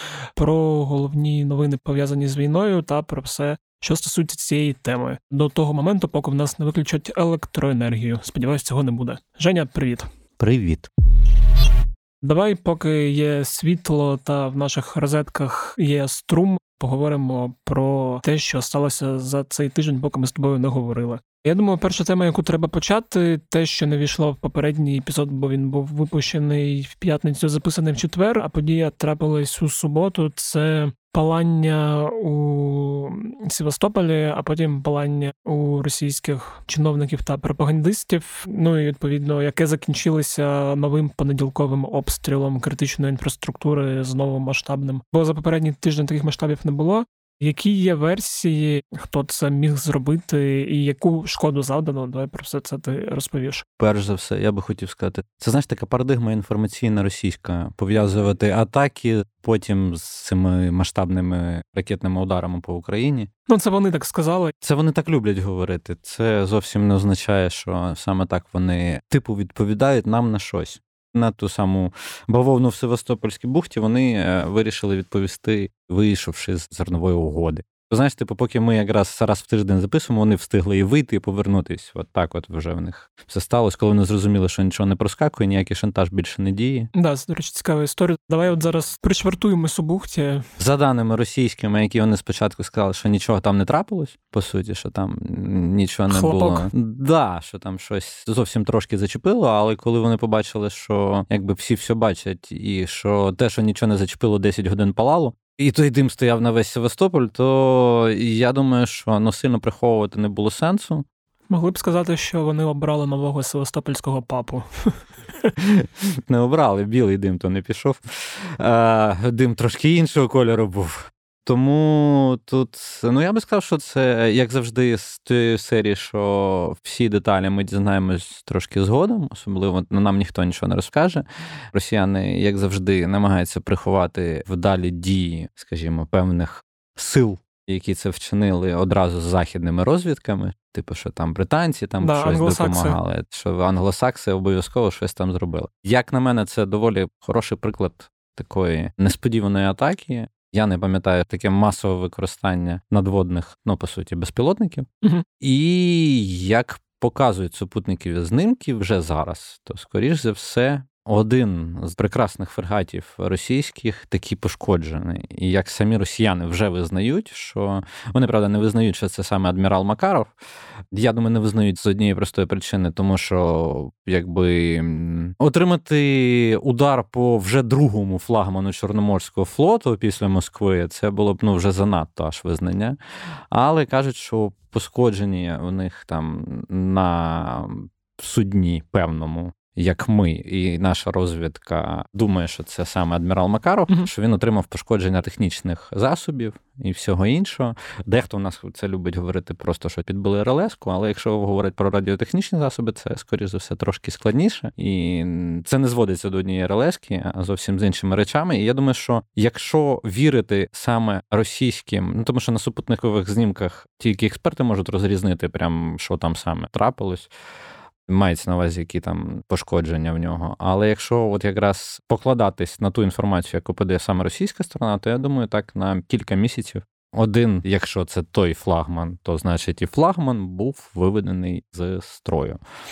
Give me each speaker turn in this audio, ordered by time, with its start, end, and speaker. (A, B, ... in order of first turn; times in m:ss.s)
0:00.4-0:10.1 A
0:10.4-0:10.9 B
0:12.2-0:53.6 A
0:53.8-1:03.3 B
1:03.5-1:04.5 A
1:04.6-1:26.9 B
1:26.9-1:30.4 A
1:30.6-1:51.0 B
1:36.1-1:36.7 A
1:51.5-1:55.5 A
1:55.6-2:34.9 B
2:22.0-2:23.0 A
2:35.4-2:50.3 B
2:50.9-3:03.0 B
3:03.5-3:37.3 B
3:38.1-3:52.6 B